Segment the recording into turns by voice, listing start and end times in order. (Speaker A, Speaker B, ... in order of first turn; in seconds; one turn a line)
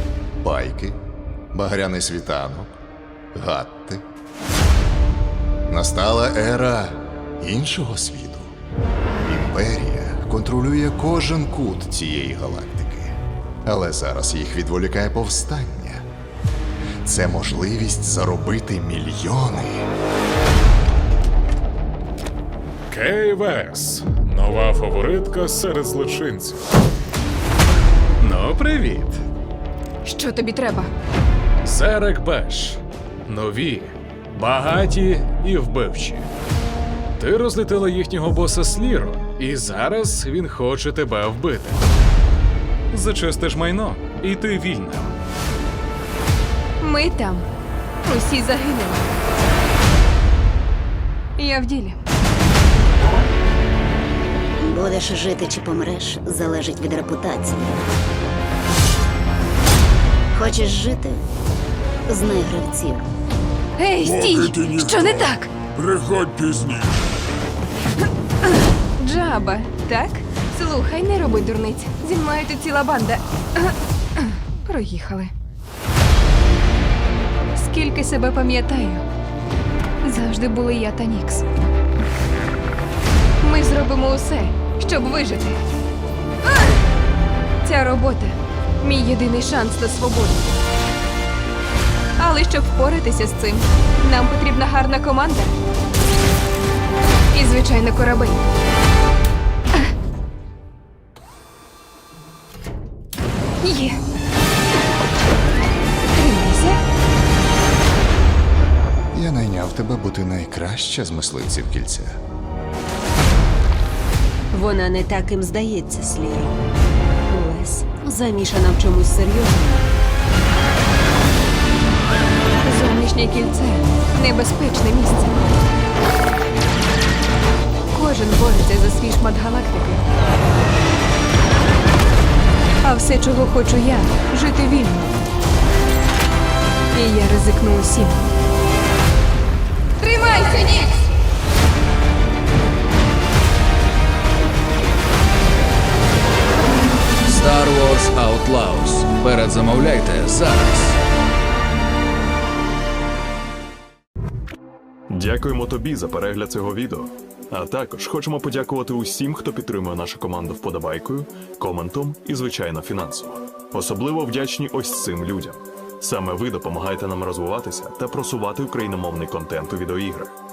Speaker A: 0.4-1.0
Speaker A: 1.5-2.7
Speaker A: 3.3-4.0
Speaker A: 5.7-8.5
Speaker A: 9.2-16.1
Speaker A: 17.0-19.9
Speaker B: 22.9-26.6
Speaker B: 28.2-29.2
Speaker C: 30.0-30.9
Speaker B: 31.6-36.2
Speaker B: 37.2-41.8
Speaker B: 42.9-45.1
Speaker C: 46.8-47.5
Speaker C: 48.0-49.1
Speaker C: 51.4-52.0
Speaker D: 54.6-57.8
Speaker D: 60.3-61.2
Speaker D: 62.1-63.1
Speaker C: 63.8-65.5
Speaker E: 64.1-64.8
Speaker E: 65.8-67.0
Speaker C: 69.0-75.3
Speaker C: 77.5-79.0
Speaker C: 80.0-81.5
Speaker C: 83.4-85.6
Speaker C: 87.6-90.5
Speaker C: 92.2-95.5
Speaker C: 97.3-98.4
Speaker C: 103.6-104.0
Speaker C: 106.1-106.8
Speaker A: 109.1-112.2
Speaker F: 114.5-116.5
Speaker F: 117.3-119.8
Speaker C: 122.6-125.4
Speaker C: 127.9-130.0
Speaker C: 132.8-135.1
Speaker C: 136.9-138.2
Speaker C: 140.0-141.0
Speaker G: 147.2-150.9
Speaker H: 155.1-170.3